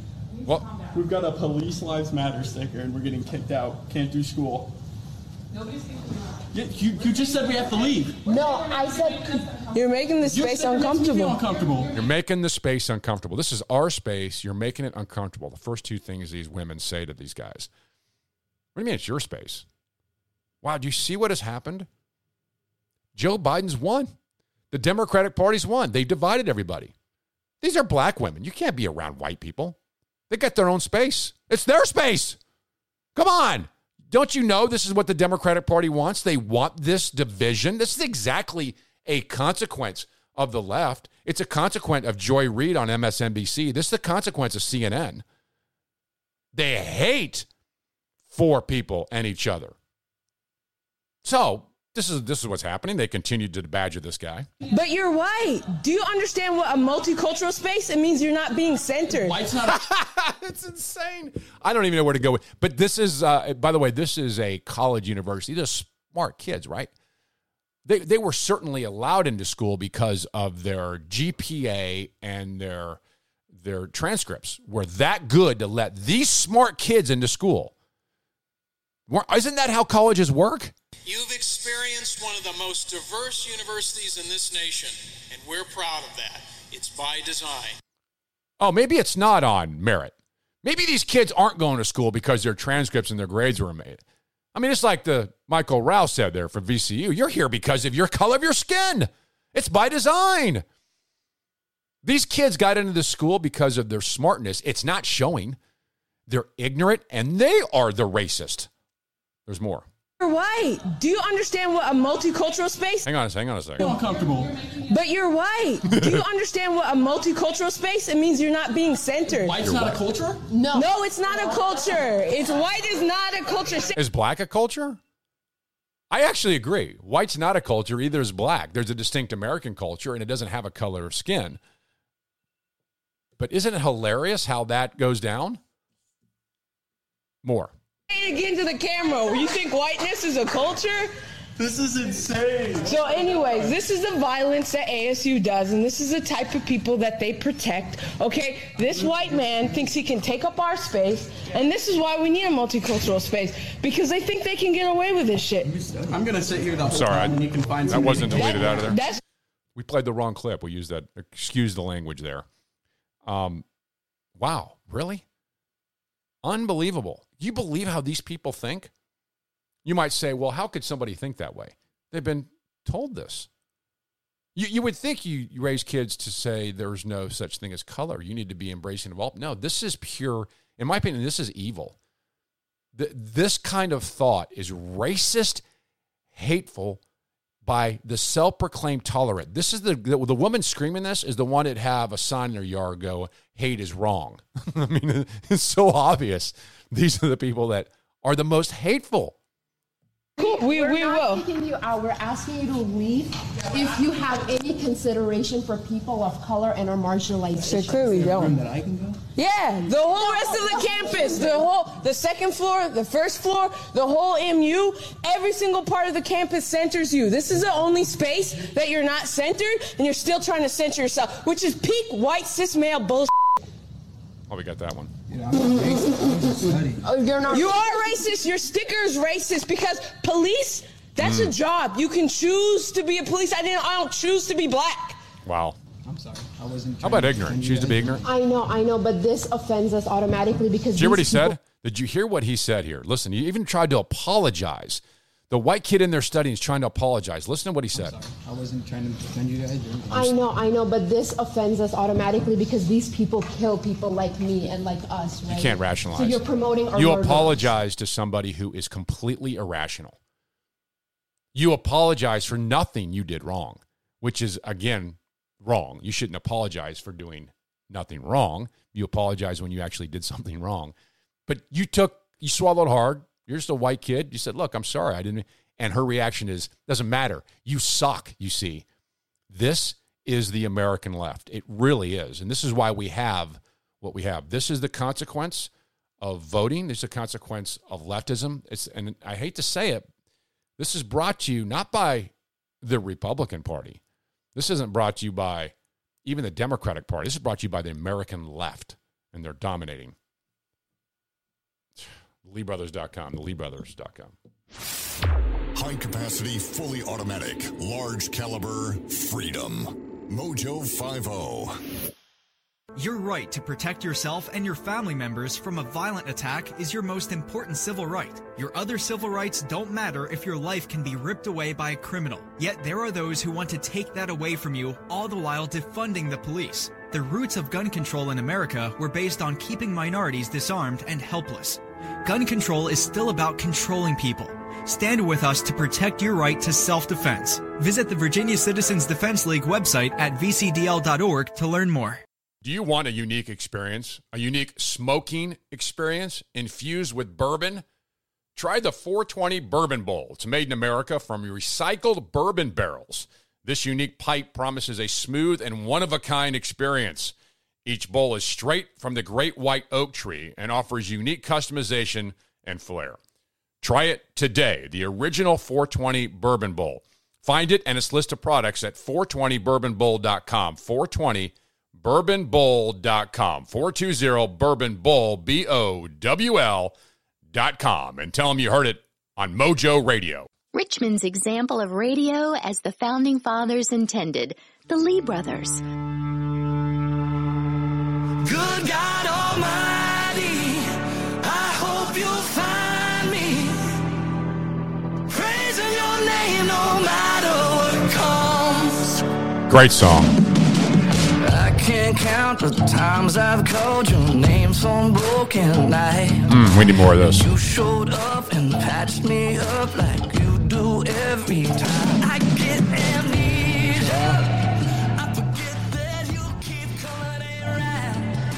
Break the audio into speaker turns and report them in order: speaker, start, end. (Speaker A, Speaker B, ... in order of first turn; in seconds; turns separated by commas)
Speaker A: 0.9-4.7, Speaker A: 6.5-8.2, Speaker B: 8.2-9.5, Speaker C: 9.7-11.4, Speaker A: 10.3-11.9, Speaker D: 11.9-17.7, Speaker D: 18.7-19.6, Speaker D: 20.6-21.9, Speaker D: 23.1-24.1, Speaker D: 24.7-26.9, Speaker D: 27.6-29.8, Speaker D: 30.3-32.4, Speaker D: 33.1-45.2, Speaker D: 46.5-47.5, Speaker D: 48.3-49.7, Speaker D: 51.2-54.5, Speaker C: 54.7-59.4, Speaker A: 59.2-59.6, Speaker D: 59.6-66.9, Speaker D: 67.8-73.0, Speaker D: 73.5-77.7, Speaker D: 79.1-80.7, Speaker E: 81.1-87.8, Speaker D: 88.6-94.0, Speaker D: 94.5-100.6, Speaker D: 102.0-105.6, Speaker D: 106.3-108.7, Speaker D: 109.5-109.8, Speaker C: 110.2-113.0, Speaker D: 113.0-113.9, Speaker A: 113.8-114.5, Speaker C: 114.8-119.6, Speaker D: 115.9-116.2, Speaker A: 119.3-120.4, Speaker D: 119.6-120.0, Speaker B: 120.5-120.9, Speaker C: 120.7-123.9, Speaker D: 124.0-125.0, Speaker D: 126.1-131.6, Speaker D: 133.4-135.6, Speaker D: 137.4-137.7, Speaker C: 138.1-141.1, Speaker A: 141.6-143.5, Speaker C: 142.8-155.7, Speaker F: 155.7-156.2, Speaker A: 156.1-159.0, Speaker D: 156.9-159.0, Speaker C: 158.3-159.2, Speaker D: 159.8-162.5, Speaker D: 163.2-163.6, Speaker D: 164.4-165.2, Speaker D: 166.4-168.9, Speaker D: 169.8-173.5, Speaker D: 174.5-181.9, Speaker D: 182.9-185.6, Speaker D: 186.3-187.0, Speaker D: 187.6-199.3, Speaker B: 200.4-208.5, Speaker C: 200.4-201.4, Speaker F: 207.6-209.2, Speaker C: 207.6-208.6, Speaker C: 209.3-223.3, Speaker B: 210.1-211.5, Speaker D: 224.5-225.1, Speaker F: 225.3-226.9, Speaker B: 227.0-227.8, Speaker C: 227.5-235.2, Speaker D: 231.2-231.5, Speaker D: 235.4-235.8, Speaker F: 236.2-238.2, Speaker D: 237.0-238.2, Speaker B: 238.2-241.6, Speaker D: 240.9-248.2, Speaker F: 248.3-250.3, Speaker B: 250.1-257.6, Speaker D: 255.5-260.2, Speaker D: 261.5-270.9, Speaker D: 271.5-278.9, Speaker D: 279.5-285.7, Speaker D: 286.2-290.1, Speaker D: 290.8-294.0, Speaker D: 294.5-295.7, Speaker D: 296.2-300.1, Speaker D: 302.0-304.3, Speaker G: 305.7-311.7, Speaker H: 312.9-342.2, Speaker D: 342.6-347.8, Speaker D: 348.5-363.2, Speaker D: 363.8-376.9, Speaker D: 377.5-380.5, Speaker I: 380.7-385.8, Speaker J: 388.4-393.9, Speaker J: 395.3-399.2, Speaker D: 399.7-400.3, Speaker J: 401.4-406.5, Speaker D: 406.5-407.5, Speaker J: 407.2-418.3